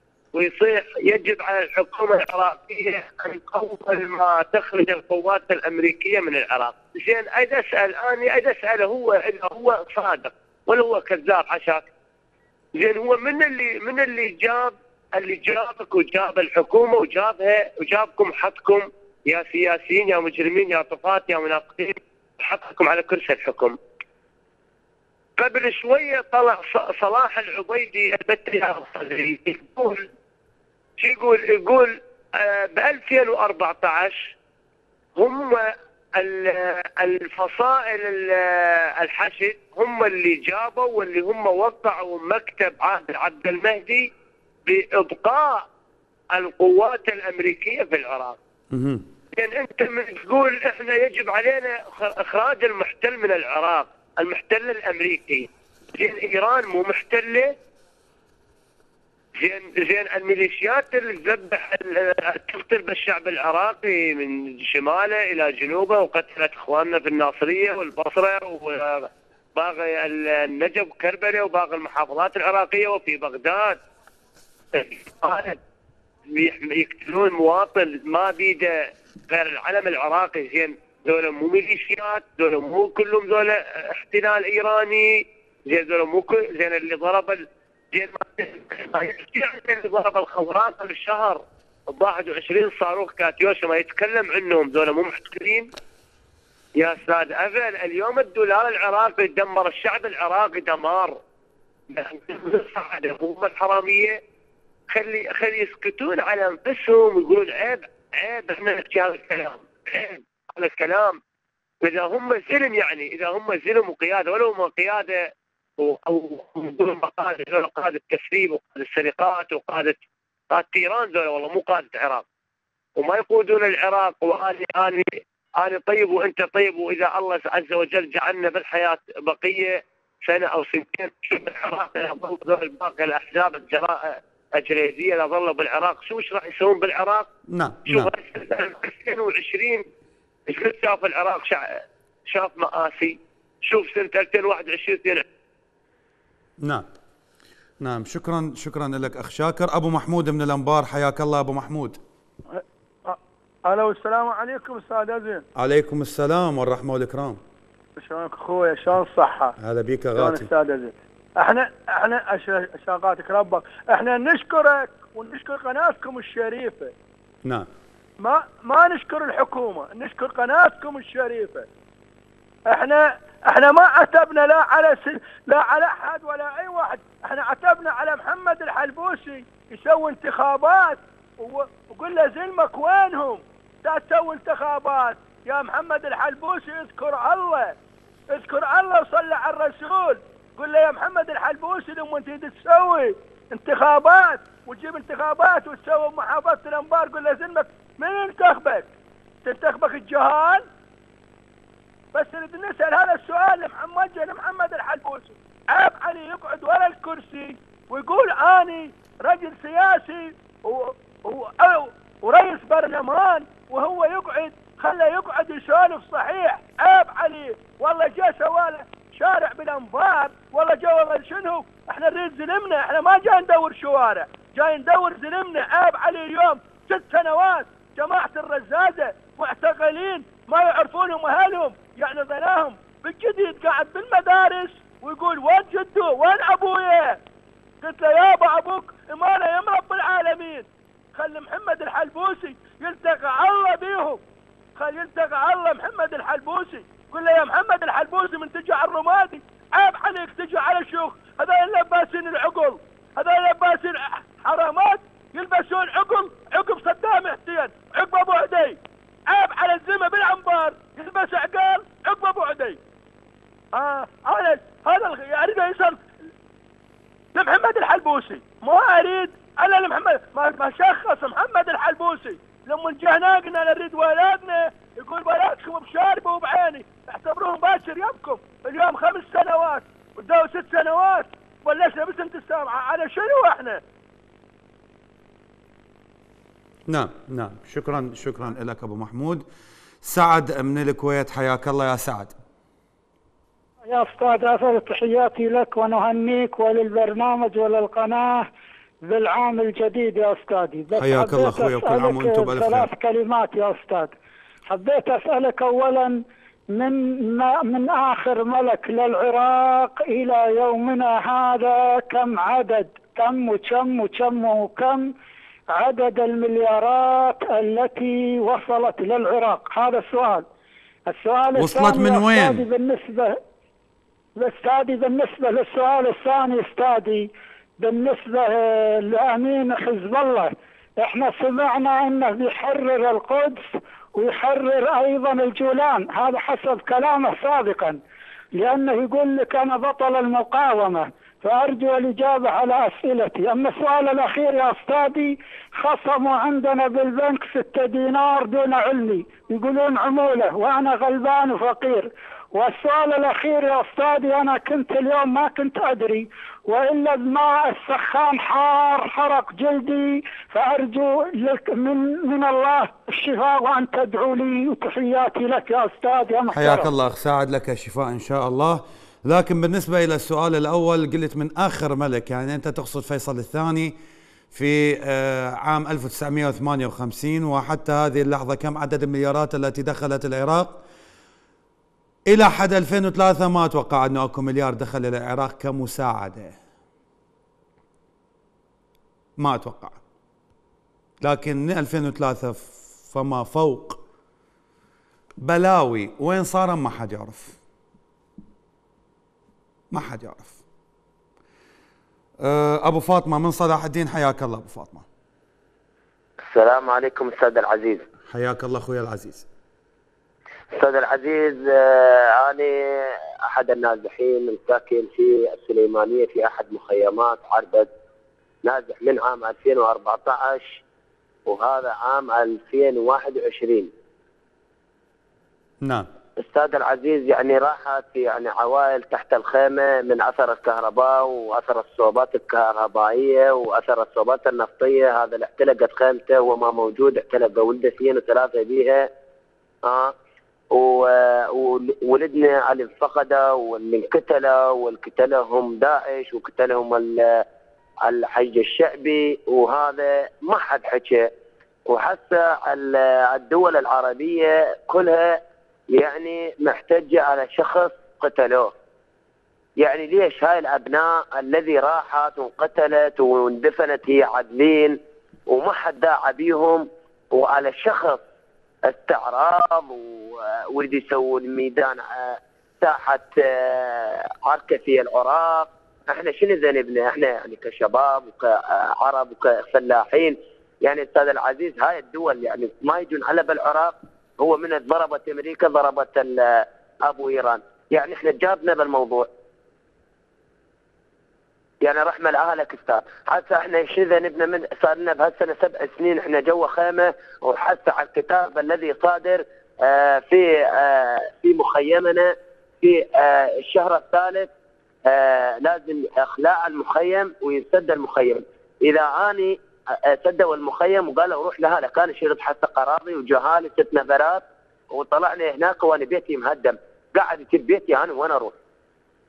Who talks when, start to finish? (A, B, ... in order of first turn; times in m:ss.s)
0:00.3-0:11.9 A
0:12.7-0:23.8 A
0:25.4-0:30.1 A
0:31.0-0:34.3 A
0:35.1-0:44.1 A
0:44.6-0:45.6 A
0:46.3-0:48.4 A
0:48.7-0:49.0 B
0:49.3-0:57.5 A
0:59.4-1:13.8 A
1:14.7-1:15.6 A
1:16.3-1:35.7 A
1:36.8-1:41.2 A
1:41.9-1:44.2 A
1:44.9-1:51.2 A
1:51.8-2:00.0 A
2:00.5-2:02.2 A
2:03.0-2:17.3 A
2:17.5-2:18.1 B
2:17.9-2:19.8 A
2:20.5-2:25.2 A
2:27.8-2:32.0 B
2:32.5-2:35.4 C
2:35.6-2:37.4 B
2:38.0-2:39.5 C
2:39.6-2:40.5 B
2:40.1-2:46.9 C
2:47.4-2:47.7 B
2:48.2-2:51.7 C
2:52.7-3:07.7 C
3:08.3-3:18.9 C
3:19.4-3:20.7 C
3:22.1-3:57.2 C
3:57.8-4:04.2 C
4:04.8-4:22.8 C
4:23.7-4:26.0 C
4:27.3-4:43.8 C
4:46.9-4:49.4 B
4:50.0-4:52.3 B
4:53.8-4:58.5 D
4:59.1-5:04.1 D
5:01.0-5:02.9 B
5:04.7-5:06.2 D
5:06.7-5:15.1 D
5:15.7-5:20.5 D
5:21.1-5:23.4 D
5:21.6-5:22.6 B
5:24.4-5:33.6 D
5:34.2-5:38.0 D
5:38.6-6:06.9 D
6:06.5-6:13.9 B
6:14.5-6:20.8 B
6:22.3-6:26.5 B
6:29.4-6:30.0 B
6:31.2-6:34.0 B
6:35.4-6:37.6 B
6:39.9-6:40.6 B
6:42.4-6:45.0 B
6:46.4-6:48.0 E
6:48.3-6:49.5 B
6:50.7-6:57.9 E
6:58.6-7:00.8 E
7:01.5-7:03.9 E
7:05.8-7:06.1 B
7:06.4-7:19.1 E
7:19.8-7:20.1 E
7:20.7-7:27.4 E
7:28.0-7:31.3 E
7:31.9-7:38.7 E
7:39.8-7:48.2 E
7:48.8-8:09.3 E
8:11.8-8:24.5 E
8:25.0-8:38.5 E